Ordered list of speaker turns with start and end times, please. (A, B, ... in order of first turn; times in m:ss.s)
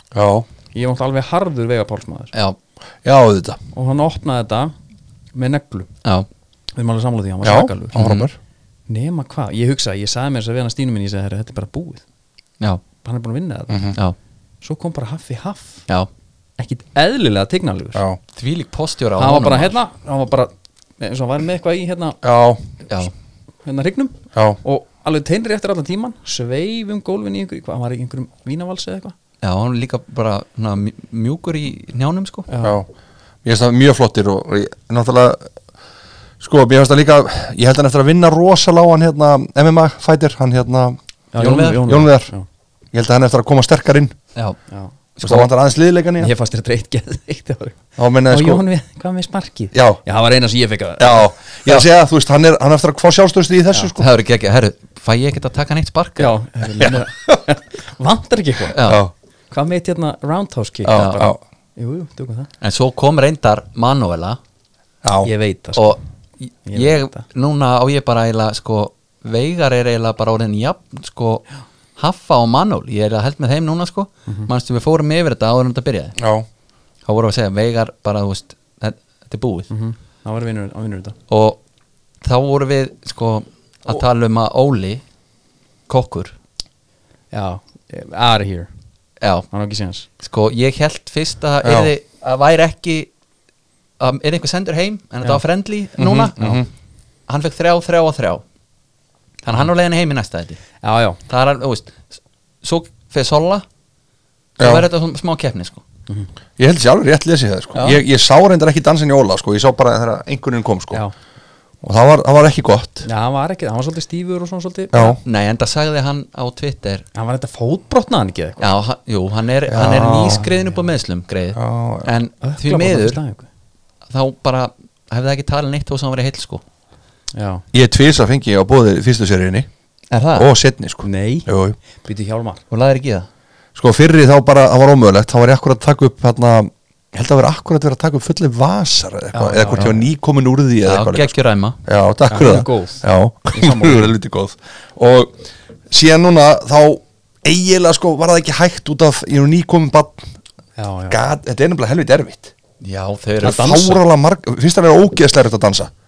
0:00.1-0:00.5 A
0:00.7-0:02.3 B
0:03.0-0:03.6 A
0:03.7-0:04.7 B
0:05.3-0:05.9 B
0:06.7-0:08.1 B
0:07.4-0:08.3 A
0:07.9-0:08.3 C
0:08.9-0:12.0 B
0:13.0-0:13.9 B
0:13.7-0:14.0 A
0:14.6-0:15.8 B
0:16.6-0:18.0 B
0:18.3-0:19.8 C
0:19.2-0:22.2 B
0:22.2-0:22.6 A
0:23.6-0:29.1 B
0:24.3-0:24.6 A
0:29.4-0:32.5 C
0:32.5-0:32.8 B
0:32.6-0:32.9 A
0:33.4-0:35.5 A
0:36.4-0:41.0 A
0:41.3-0:42.4 B
0:41.4-0:42.0 C
0:41.5-0:42.3 A
0:42.9-0:44.1 A
0:45.2-0:45.5 C
0:45.2-0:46.3 A
0:46.2-0:51.3 B
0:48.0-0:48.6 A
0:49.7-0:50.0 A
0:51.0-0:54.1 A
0:54.0-0:56.4 C
0:56.2-0:58.8 B
0:56.8-0:57.4 A
0:58.7-0:59.0 C
0:58.8-0:59.1 A
0:59.5-1:02.5 B
1:00.8-1:01.4 A
1:00.9-1:01.3 C
1:02.6-1:04.4 C
1:05.0-1:05.3 A
1:05.2-1:06.0 B
1:05.7-1:16.2 C
1:06.7-1:07.2 B
1:16.2-1:16.4 A
1:17.0-1:19.7 C
1:19.7-1:21.2 B
1:21.3-1:21.6 C
1:22.2-1:25.0 C
1:25.9-1:26.3 C
1:27.3-1:28.7 B
1:29.2-1:29.5 C
1:29.5-1:30.1 B
1:30.2-1:33.1 C
1:31.6-1:31.9 A
1:34.0-1:36.6 C
1:36.0-1:36.7 A
1:37.3-1:38.4 C
1:39.4-1:40.6 C
1:40.8-1:41.2 B
1:41.3-1:43.6 C
1:44.6-1:45.8 C
1:44.6-1:44.9 A
1:46.6-1:51.0 A
1:47.7-1:48.0 C
1:51.8-1:53.0 A
1:53.0-1:55.2 B
1:54.9-1:55.2 A
1:55.2-1:57.0 C
1:57.1-1:58.7 B
1:58.6-2:03.2 C
1:59.7-2:00.4 A
2:00.0-2:00.8 B
2:01.5-2:02.1 A
2:02.4-2:03.5 B
2:04.1-2:06.6 C
2:07.3-2:07.6 B
2:07.7-2:09.7 A
2:10.1-2:10.5 C
2:10.3-2:11.8 A
2:11.0-2:11.5 B
2:12.0-2:12.6 B
2:12.7-2:13.3 C
2:13.7-2:21.3 A
2:19.4-2:20.0 B
2:19.4-2:19.9 C
2:20.8-2:21.8 C
2:21.8-2:30.3 A
2:22.3-2:24.1 B
2:30.8-2:31.2 B
2:31.1-2:32.5 A
2:32.8-2:33.9 C
2:33.4-2:35.9 A
2:33.4-2:34.0 B